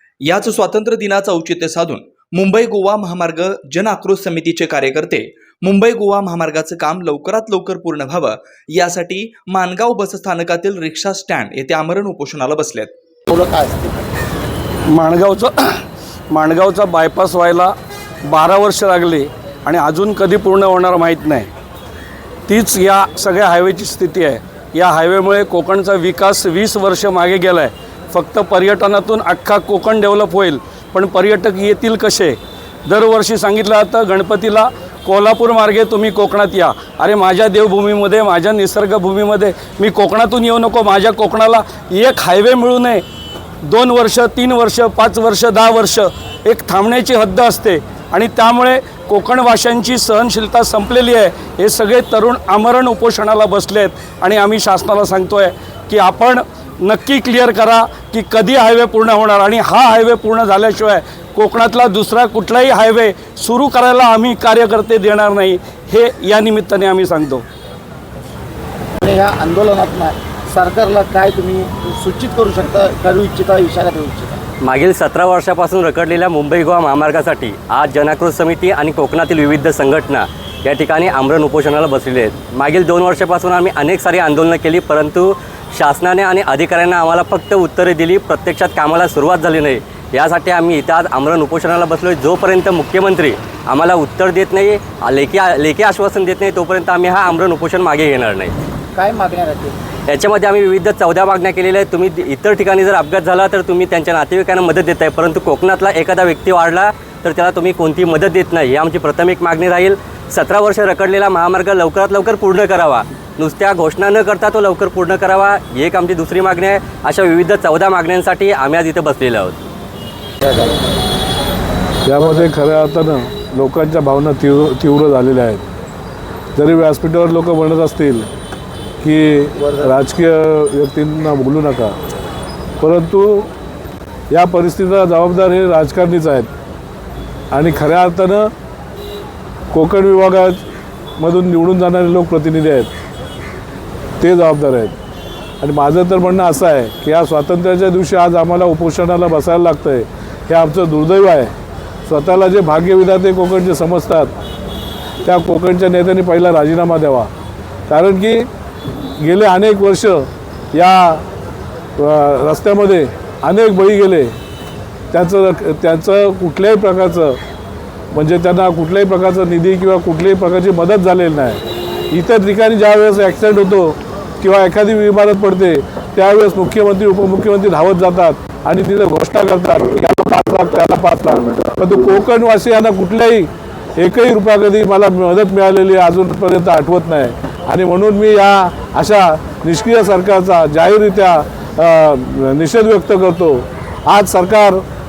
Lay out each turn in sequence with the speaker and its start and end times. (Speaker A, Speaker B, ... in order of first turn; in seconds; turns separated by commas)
Speaker A: 0.2-13.0, Speaker B: 13.3-14.1, Speaker C: 14.9-15.6, Speaker C: 16.3-17.7, Speaker C: 18.3-21.5, Speaker C: 22.5-43.0, Speaker C: 43.7-67.5, Speaker B: 69.0-74.4, Speaker D: 74.6-98.5, Speaker B: 99.0-99.8, Speaker D: 100.1-119.6, Speaker B: 120.4-120.8, Speaker E: 122.0-125.7, Speaker E: 126.6-128.3, Speaker E: 129.0-132.0, Speaker B: 129.6-129.9, Speaker E: 132.8-133.5, Speaker E: 134.3-136.5, Speaker E: 137.5-138.5, Speaker E: 139.7-140.7, Speaker E: 141.2-142.9, Speaker E: 144.2-145.0, Speaker E: 145.6-151.5, Speaker E: 152.1-154.3, Speaker E: 155.2-157.3, Speaker E: 157.9-158.5, Speaker E: 159.2-161.2, Speaker E: 162.0-164.3, Speaker E: 165.1-167.4, Speaker E: 168.1-194.8